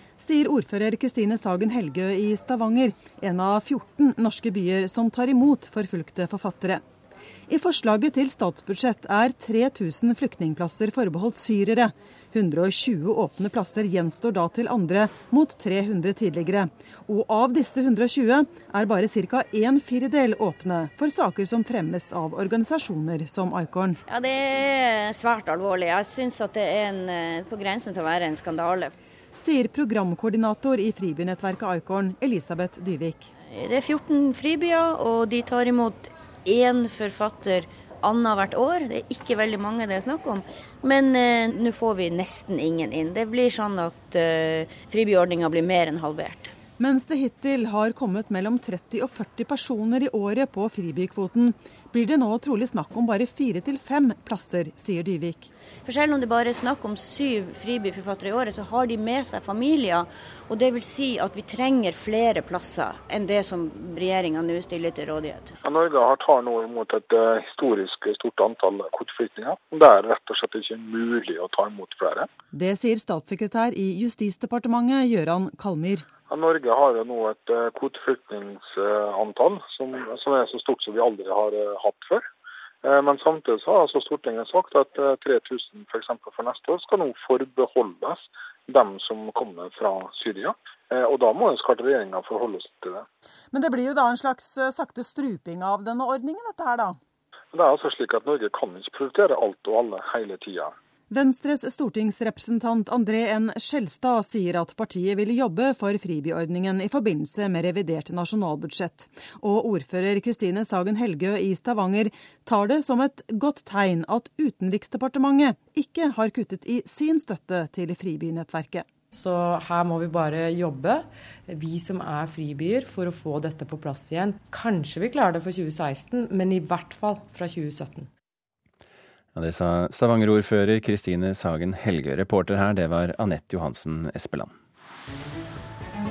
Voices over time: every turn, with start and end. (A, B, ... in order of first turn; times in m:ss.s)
0:00.2-0:06.8 A
0:07.5-0:24.0 A
0:24.0-0:28.9 B
0:29.3-0:33.3 A
0:33.5-0:46.5 B
0:46.8-0:55.5 A
0:55.8-1:05.5 B
1:05.6-1:12.3 C
1:12.5-1:16.0 A
1:16.3-1:22.3 C
1:22.8-1:33.0 C
1:33.5-1:37.0 A
1:37.5-1:40.7 C
1:41.1-1:58.8 A
1:59.1-2:08.1 D
2:09.3-2:14.5 E